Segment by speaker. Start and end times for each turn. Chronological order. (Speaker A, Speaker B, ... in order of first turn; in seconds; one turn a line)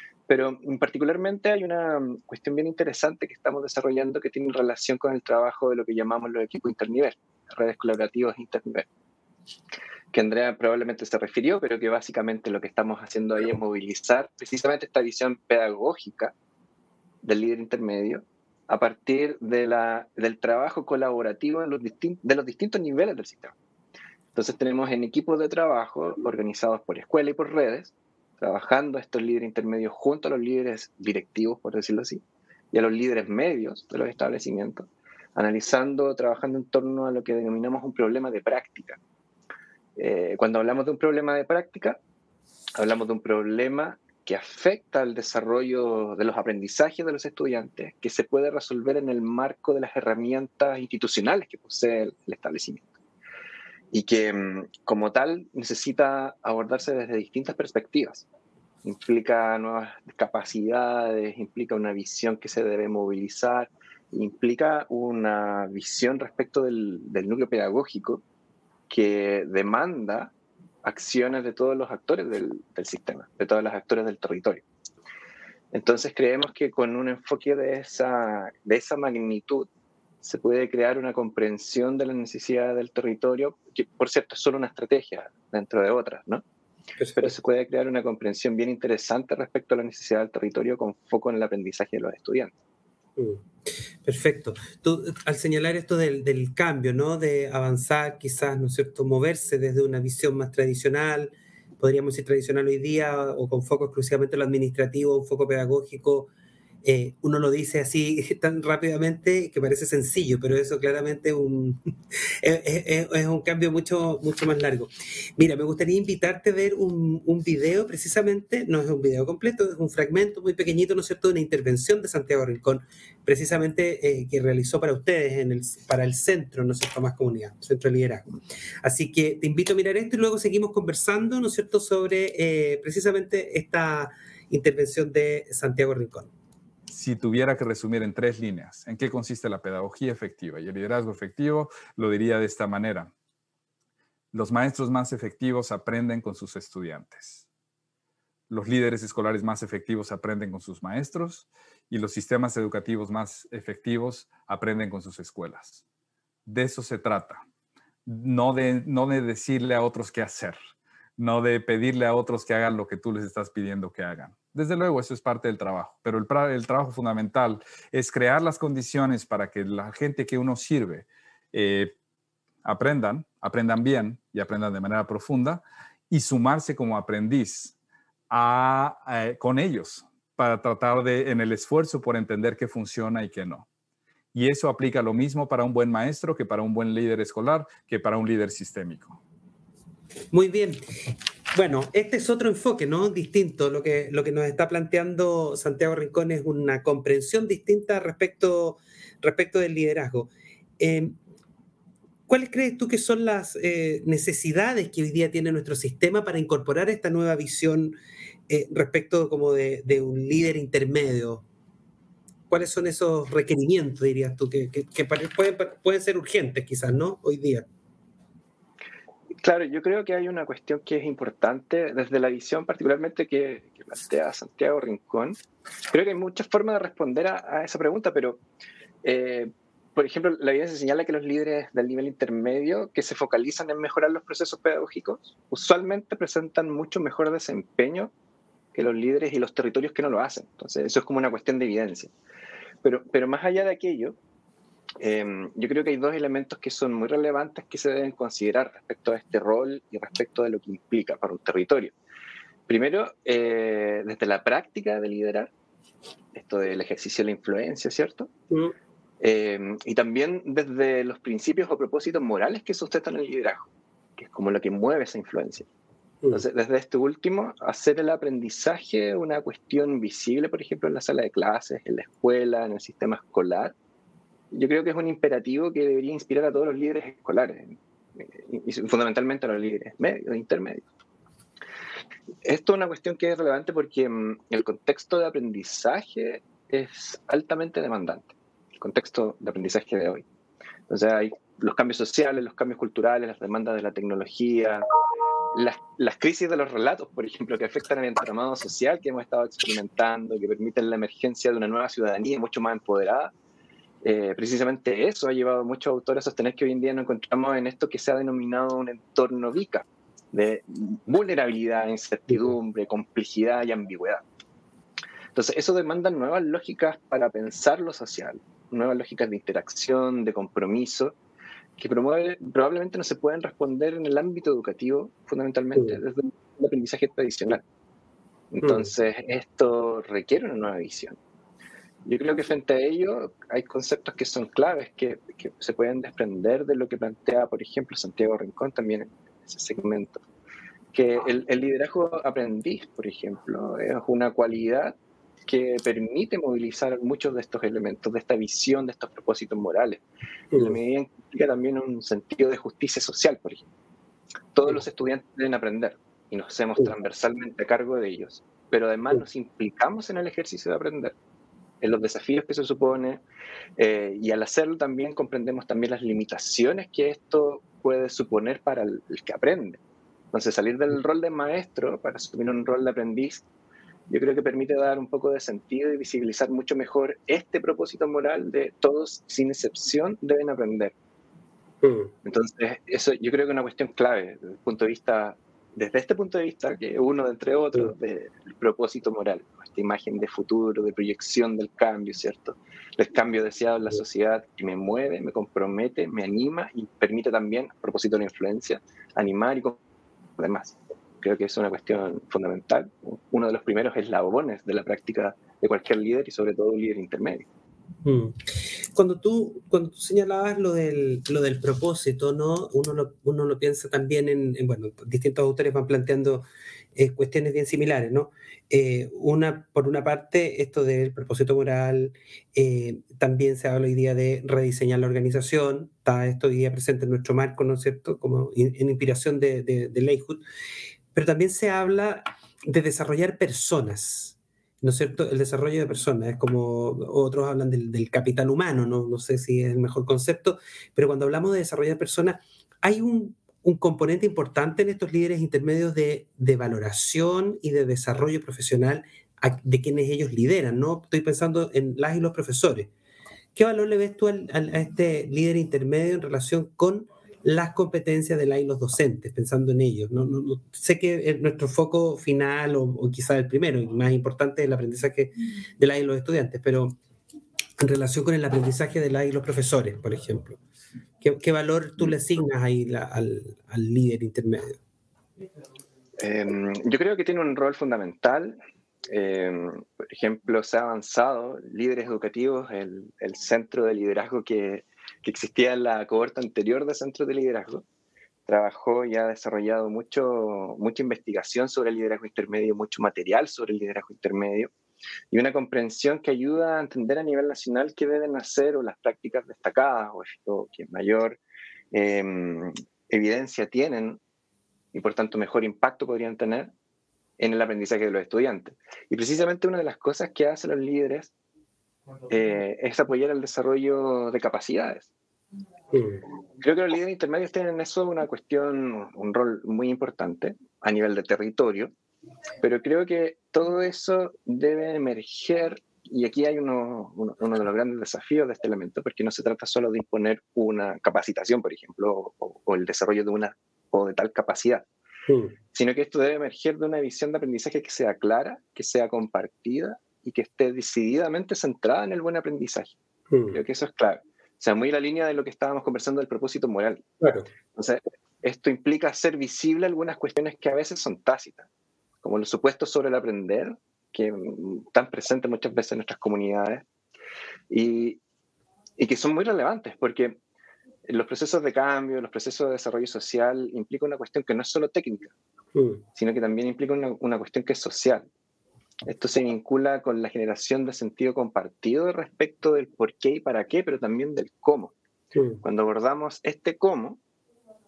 Speaker A: 0.3-8.9
Speaker A: 10.1-16.3
Speaker A: 17.2-23.5
Speaker A: 24.3-39.0
Speaker A: 40.0-42.0
Speaker A: 42.8-52.9
Speaker A: 53.9-58.2
Speaker A: 58.8-68.2
Speaker A: 68.9-70.3
Speaker A: 70.8-74.6
Speaker A: 75.7-79.7
Speaker A: 80.2-86.4
Speaker B: 87.0-87.3
Speaker A: 87.2-92.5
Speaker B: 93.2-93.4
Speaker B: 94.0-106.3
Speaker B: 106.8-111.8
Speaker B: 112.4-128.3
Speaker B: 128.8-136.3
Speaker C: 136.9-143.1
Speaker C: 144.3-147.4
Speaker C: 148.5-155.8
Speaker C: 156.4-157.4
Speaker C: 158.1-160.6
Speaker C: 161.2-171.9
Speaker C: 172.6-177.7
Speaker C: 178.3-183.7
Speaker C: 184.3-189.2
Speaker B: 190.3-190.8
Speaker B: 191.5-201.2
Speaker B: 202.3-207.9
Speaker B: 208.5-211.4
Speaker B: 212.5-217.7
Speaker A: 219.4-225.4
Speaker A: 225.9-228.4
Speaker A: 229.0-238.1
Speaker A: 238.7-242.1
Speaker A: 242.8-244.2
Speaker A: 245.0-251.9
Speaker A: 252.7-255.5
Speaker A: 256.3-258.3
Speaker A: 259.2-265.7
Speaker A: 266.3-273.7
Speaker A: 274.5-280.8
Speaker A: 282.4-290.2
Speaker A: 290.9-294.8
Speaker A: 295.5-303.3
Speaker A: 304.0-314.2
Speaker A: 315.3-321.1
Speaker A: 321.8-327.6
Speaker A: 328.5-331.2
Speaker B: 328.6-328.9
Speaker A: 332.0-340.2
Speaker A: 340.9-350.0
Speaker B: 350.5-350.8
Speaker A: 350.5-353.6
Speaker A: 354.5-361.1
Speaker A: 361.8-363.2
Speaker A: 363.8-369.8
Speaker A: 370.3-373.4
Speaker A: 374.1-380.9
Speaker B: 381.8-382.1
Speaker A: 382.2-399.8
Speaker A: 400.4-407.5
Speaker B: 408.0-408.4
Speaker B: 408.9-430.4
Speaker B: 431.1-452.9
Speaker B: 453.5-467.0
Speaker B: 467.8-470.6
Speaker B: 471.2-474.8
Speaker A: 476.2-478.6
Speaker A: 479.1-487.8
Speaker A: 488.4-494.7
Speaker A: 495.3-501.4
Speaker A: 501.9-504.2
Speaker A: 504.9-506.7
Speaker A: 507.4-511.3
Speaker A: 512.3-515.1
Speaker B: 515.9-516.2
Speaker A: 516.6-521.9
Speaker A: 522.6-534.9
Speaker B: 535.3-535.5
Speaker A: 535.7-542.9
Speaker B: 543.3-543.6
Speaker A: 543.5-547.0
Speaker B: 547.2-547.5
Speaker A: 547.7-551.7
Speaker A: 552.2-556.8
Speaker A: 557.7-558.2
Speaker A: 559.0-560.4
Speaker A: 561.1-565.3
Speaker B: 565.7-566.0
Speaker A: 566.1-568.3
Speaker A: 569.1-574.9
Speaker B: 575.3-575.6
Speaker A: 575.6-577.2